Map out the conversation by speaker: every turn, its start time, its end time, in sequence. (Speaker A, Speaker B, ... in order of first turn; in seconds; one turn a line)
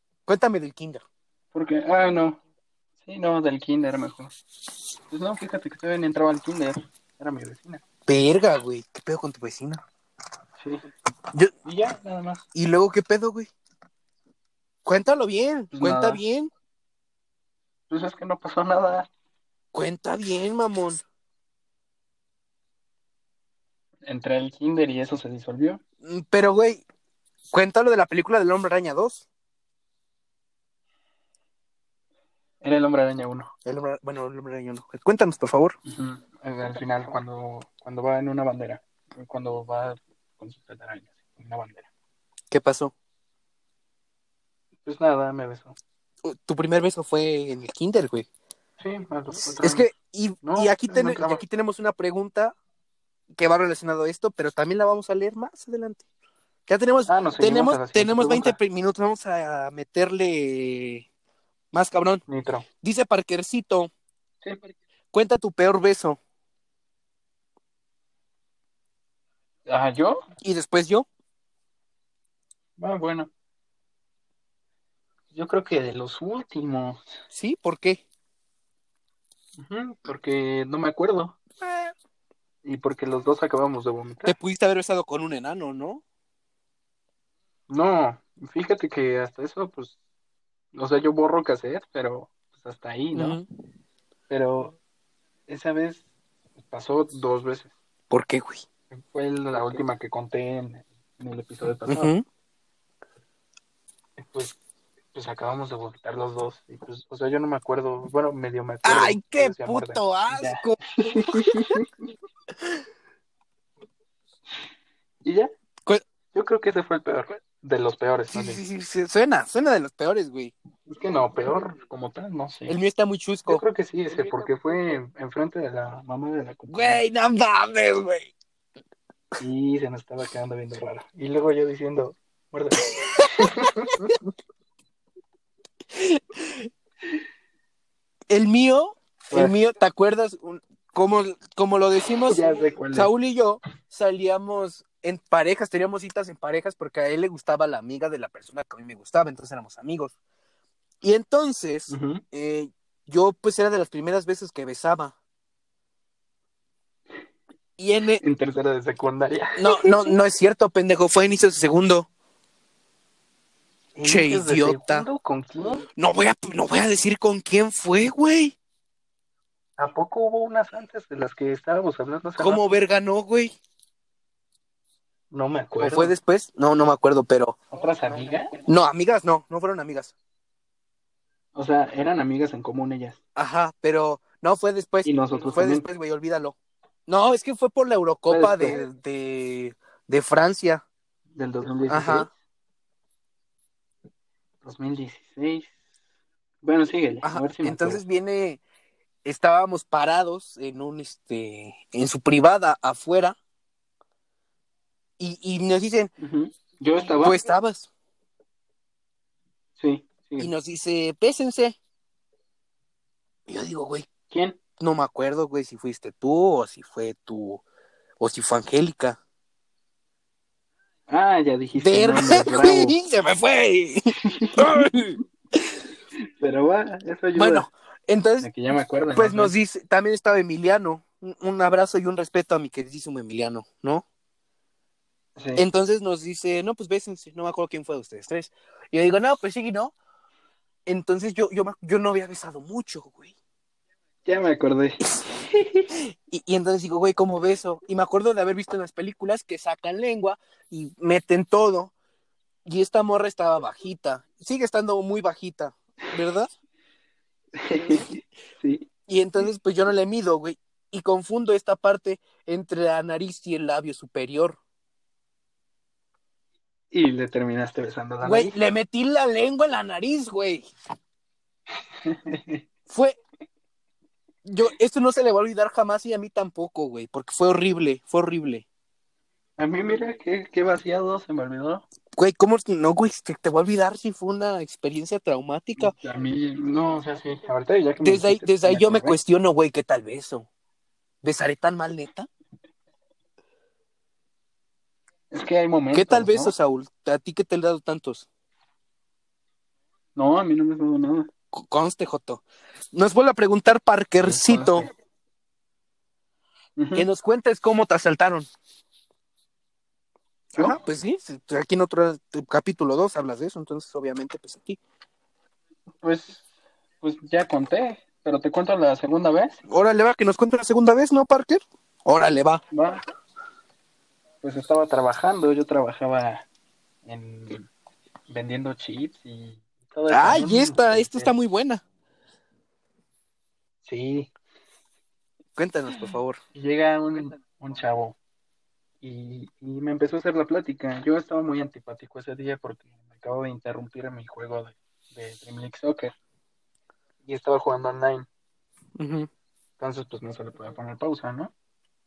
Speaker A: 0.3-1.0
Speaker B: 1.5-2.4
Speaker B: 3.0-4.3
Speaker B: 5.1-7.8
Speaker A: 8.1-9.8
Speaker B: 11.6-12.4
Speaker A: 12.5-13.5
Speaker A: 14.8-16.5
Speaker B: 15.7-16.2
Speaker B: 17.9-19.1
Speaker A: 19.7-21.0
Speaker B: 24.0-25.8
Speaker A: 26.0-26.8
Speaker A: 27.5-29.2
Speaker B: 32.6-33.5
Speaker A: 33.6-35.8
Speaker B: 35.9-41.9
Speaker A: 42.5-42.9
Speaker B: 44.9-45.8
Speaker A: 46.2-48.3
Speaker B: 48.8-49.9
Speaker A: 49.6-52.5
Speaker B: 50.4-51.4
Speaker A: 53.3-56.0
Speaker A: 56.7-61.0
Speaker B: 57.1-58.5
Speaker A: 61.7-62.2
Speaker B: 62.3-62.7
Speaker A: 62.8-63.9
Speaker A: 65.1-66.2
Speaker B: 69.7-70.2
Speaker A: 70.4-71.0
Speaker B: 72.8-73.3
Speaker B: 75.3-77.1
Speaker A: 77.3-78.0
Speaker B: 79.6-81.4
Speaker A: 81.6-81.9
Speaker B: 82.6-84.3
Speaker A: 84.2-86.0
Speaker B: 87.7-90.0
Speaker B: 90.7-93.4
Speaker A: 93.1-93.5
Speaker B: 94.3-94.8
Speaker B: 95.5-96.0
Speaker B: 96.6-97.7
Speaker A: 98.1-98.6
Speaker B: 98.9-102.1
Speaker A: 101.9-102.2
Speaker B: 104.2-104.5
Speaker B: 105.1-111.9
Speaker A: 108.8-111.7
Speaker B: 115.2-115.5
Speaker B: 116.3-118.6
Speaker A: 118.3-120.5
Speaker B: 120.9-122.8
Speaker A: 122.7-123.6
Speaker B: 123.5-127.0
Speaker A: 126.7-128.3
Speaker B: 129.4-134.1
Speaker A: 133.0-134.2
Speaker A: 135.9-136.7
Speaker A: 138.3-150.1
Speaker B: 139.3-139.5
Speaker B: 142.3-143.1
Speaker A: 151.0-155.1
Speaker B: 151.9-152.2
Speaker A: 157.8-158.2
Speaker B: 158.2-160.1
Speaker A: 159.6-162.1
Speaker B: 163.9-165.8
Speaker A: 164.0-165.1
Speaker A: 165.9-168.6
Speaker B: 169.8-172.7
Speaker A: 172.4-173.5
Speaker B: 175.3-176.1
Speaker A: 175.8-177.6
Speaker B: 177.7-178.5
Speaker A: 178.6-180.1
Speaker B: 181.5-183.2
Speaker A: 183.3-186.6
Speaker B: 185.0-185.8
Speaker A: 187.1-190.8
Speaker B: 188.3-188.8
Speaker B: 191.3-192.3
Speaker A: 191.9-192.3
Speaker B: 194.6-195.7
Speaker B: 196.6-198.0
Speaker A: 197.2-198.6
Speaker A: 199.2-203.4
Speaker A: 205.2-206.1
Speaker B: 206.2-207.4
Speaker A: 207.2-207.9
Speaker B: 209.8-210.5
Speaker A: 210.4-211.8
Speaker A: 213.5-214.1
Speaker B: 214.3-214.6
Speaker A: 214.8-217.6
Speaker A: 218.2-219.2
Speaker B: 221.1-222.9
Speaker A: 221.8-225.6
Speaker B: 224.2-224.8
Speaker B: 226.2-227.7
Speaker A: 227.3-228.5
Speaker B: 228.4-229.5
Speaker A: 229.1-234.0
Speaker B: 235.4-235.6
Speaker A: 235.6-239.9
Speaker A: 240.8-243.3
Speaker B: 244.2-245.0
Speaker A: 245.9-251.9
Speaker A: 252.7-256.5
Speaker B: 257.5-258.9
Speaker A: 257.8-258.1
Speaker A: 259.1-264.6
Speaker B: 266.9-268.5
Speaker A: 268.2-270.7
Speaker B: 272.0-272.6
Speaker A: 272.9-273.2
Speaker A: 274.4-278.6
Speaker B: 279.6-281.9
Speaker A: 282.1-285.9
Speaker B: 285.8-289.2
Speaker A: 288.0-290.5
Speaker A: 291.2-292.3
Speaker B: 295.3-296.5
Speaker A: 295.9-298.2
Speaker B: 300.1-301.3
Speaker A: 301.5-304.8
Speaker B: 304.2-304.9
Speaker B: 306.8-307.1
Speaker A: 306.9-308.5
Speaker A: 310.5-314.8
Speaker B: 316.0-316.4
Speaker B: 317.0-319.6
Speaker A: 319.7-322.6
Speaker B: 322.7-323.0
Speaker B: 324.4-326.4
Speaker B: 327.0-327.7
Speaker B: 328.3-331.3
Speaker A: 330.1-331.8
Speaker B: 333.8-334.3
Speaker A: 335.6-336.4
Speaker B: 336.5-338.2
Speaker B: 339.0-346.1
Speaker B: 347.2-348.3
Speaker A: 349.0-349.3
Speaker B: 349.8-351.5